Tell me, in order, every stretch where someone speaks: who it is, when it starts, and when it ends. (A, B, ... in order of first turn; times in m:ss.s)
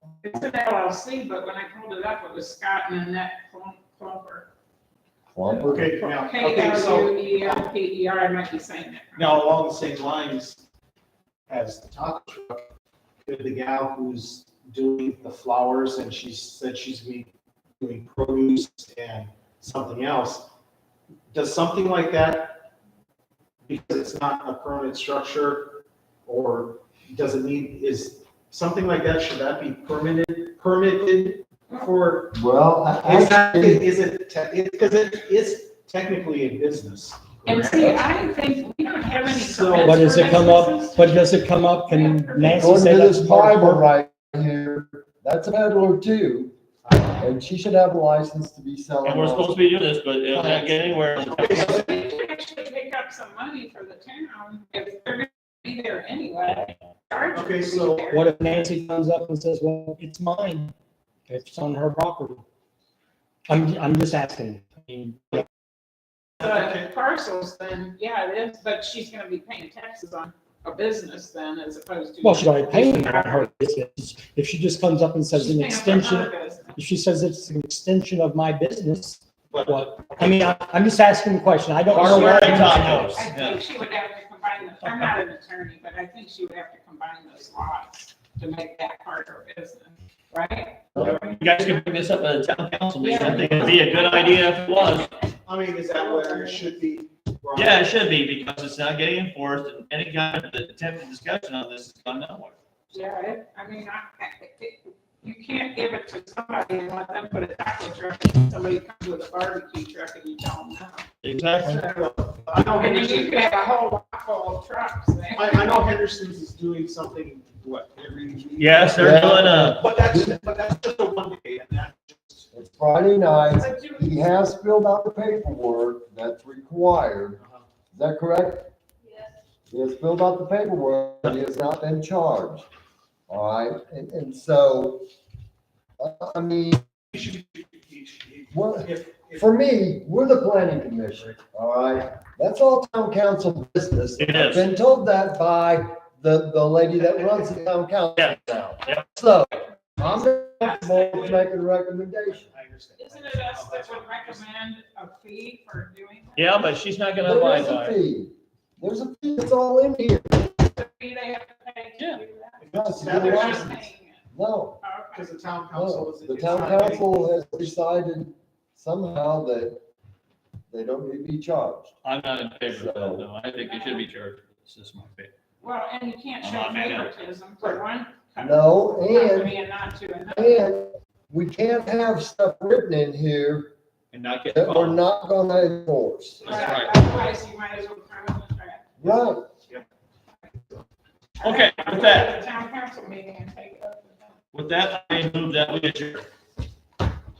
0:00.2-0:04.5 A
0:05.3-0:05.9 B
0:05.6-0:07.6 C
0:06.0-0:09.5 A
0:09.2-0:10.6 C
0:11.5-0:12.7 C
0:13.2-0:20.5 C
0:21.3-0:22.6 C
0:23.6-0:32.4 C
0:32.3-0:33.8 B
0:33.0-0:38.0 C
0:37.4-0:41.3 A
0:39.2-0:40.5 C
0:39.8-0:43.8 D
0:41.9-0:42.9 A
0:42.4-0:46.5 B
0:47.2-0:49.6 B
0:49.0-0:51.8 E
0:50.3-0:50.7 D
0:51.2-0:51.8 C
0:51.4-0:58.3 A
0:57.3-0:58.1 C
0:58.1-1:00.7 D
1:01.3-1:02.4 D
1:03.5-1:05.4 D
1:06.4-1:06.9 C
1:06.4-1:13.5 A
1:12.2-1:23.1 D
1:15.3-1:16.8 A
1:19.5-1:20.6 C
1:21.9-1:23.6 E
1:21.9-1:31.8 A
1:30.9-1:35.1 E
1:33.0-1:35.1 A
1:33.3-1:33.8 C
1:35.4-1:38.2 C
1:35.9-1:36.7 A
1:37.5-1:42.5 E
1:42.9-1:51.0 A
1:51.2-1:51.9 E
1:51.6-1:53.4 C
1:52.7-1:55.8 A
1:55.3-2:02.5 C
1:58.6-1:59.8 E
1:59.0-2:00.4 B
2:02.5-2:07.4 B
2:03.5-2:04.1 A
2:07.9-2:08.7 B
2:09.7-2:12.6 B
2:13.3-2:15.0 B
2:16.0-2:16.8 B
2:17.1-2:19.4 C
2:18.5-2:32.5 B
2:24.2-2:24.7 E
2:28.2-2:29.0 E
2:30.6-2:31.4 A
2:32.4-2:34.4 C
2:33.0-2:36.7 A
2:36.4-2:38.0 E
2:37.2-2:40.5 B
2:40.6-2:44.2 A
2:42.6-2:43.8 C
2:42.7-2:43.8 B
2:44.3-2:44.8 B
2:44.8-2:45.3 A
2:45.1-2:47.6 C
2:45.7-2:49.8 B
2:50.7-2:51.9 B
2:52.0-2:55.3 E
2:52.7-2:53.3 B
2:53.6-2:54.1 A
2:55.6-3:00.7 A
2:56.4-2:57.1 E
2:58.4-2:59.6 B
3:00.3-3:03.7 B
3:04.1-3:05.0 E
3:04.5-3:06.6 B
3:06.4-3:08.8 A
3:06.4-3:07.0 E
3:09.0-3:09.5 B
3:11.4-3:14.4 A
3:11.4-3:12.4 E
3:14.5-3:16.2 E